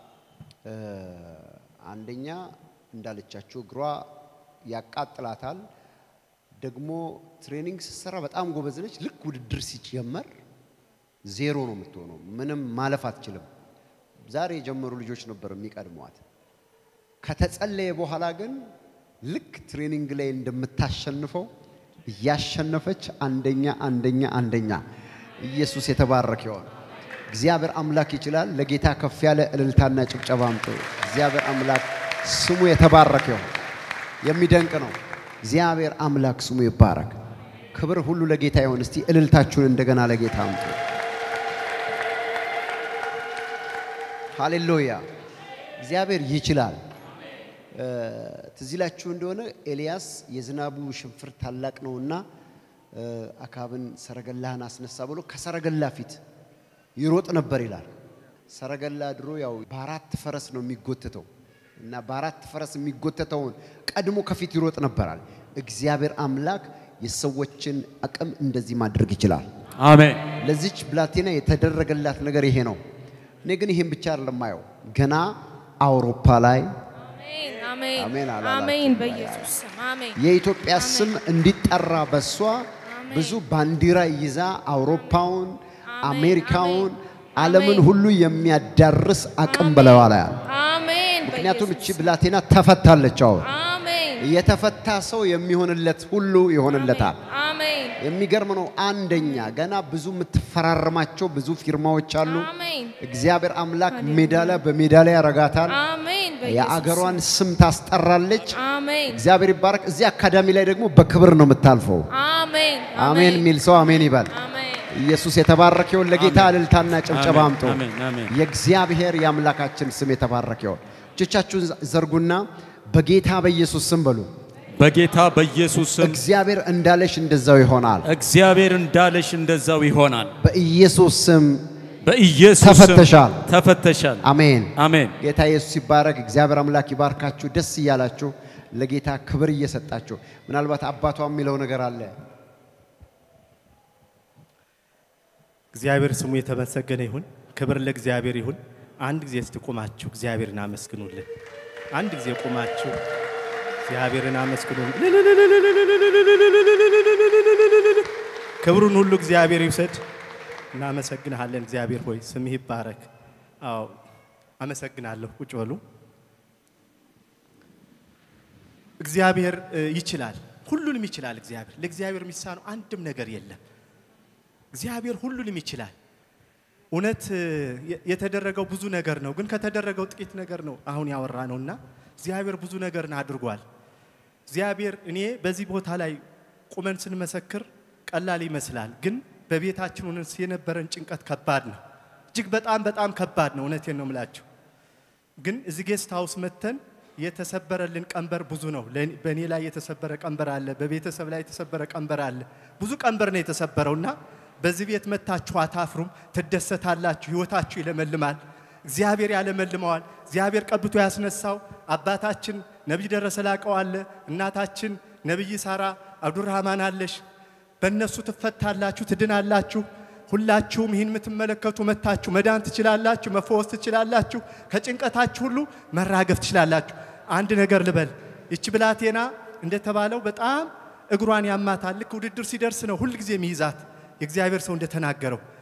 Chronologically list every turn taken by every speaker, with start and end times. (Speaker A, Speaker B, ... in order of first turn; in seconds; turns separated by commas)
Speaker A: 0.7-4.1, Speaker A: 4.7-5.6, Speaker A: 6.6-10.3, Speaker A: 11.2-13.4, Speaker A: 14.2-16.2, Speaker A: 17.2-18.7, Speaker A: 19.2-21.5, Speaker A: 22.1-24.8, Speaker A: 25.4-26.7, Speaker A: 27.3-33.5, Speaker A: 34.2-37.2, Speaker A: 37.7-40.8, Speaker A: 44.3-45.0, Speaker A: 45.8-46.8, Speaker A: 47.7-52.2, Speaker A: 52.9-56.2, Speaker A: 57.0-57.9, Speaker A: 58.5-61.3, Speaker A: 61.8-69.5, Speaker B: 69.8-70.2, Speaker A: 70.4-72.8, Speaker A: 73.4-76.7, Speaker C: 77.0-80.2, Speaker A: 78.0-79.5, Speaker A: 80.2-90.4, Speaker C: 80.7-81.1, Speaker C: 82.8-83.4, Speaker C: 84.9-85.2, Speaker C: 85.9-87.9, Speaker C: 89.5-92.2, Speaker A: 91.2-93.5, Speaker C: 93.4-94.3, Speaker A: 94.2-97.2, Speaker C: 96.7-98.0, Speaker A: 98.0-105.8, Speaker C: 99.1-99.5, Speaker C: 102.2-103.0, Speaker C: 103.9-104.6, Speaker C: 105.7-107.2, Speaker A: 106.4-108.6, Speaker C: 108.5-109.2, Speaker A: 109.1-112.1, Speaker C: 112.1-114.9, Speaker A: 113.0-114.3, Speaker A: 114.9-124.3, Speaker B: 116.1-118.3, Speaker B: 124.8-126.2, Speaker A: 126.0-128.1, Speaker B: 128.0-130.3, Speaker A: 130.4-131.7, Speaker B: 132.0-135.1, Speaker A: 132.6-133.4, Speaker A: 134.2-142.1, Speaker D: 145.7-151.2, Speaker D: 151.9-152.9, Speaker D: 153.8-158.1, Speaker D: 158.6-160.0, Speaker D: 160.7-163.1, Speaker D: 163.6-164.0, Speaker D: 164.6-165.8, Speaker D: 169.0-173.6, Speaker D: 174.7-175.9, Speaker D: 176.9-183.6, Speaker D: 184.5-186.2, Speaker D: 186.7-191.8, Speaker D: 192.3-194.4, Speaker D: 195.4-217.2, Speaker D: 217.8-235.4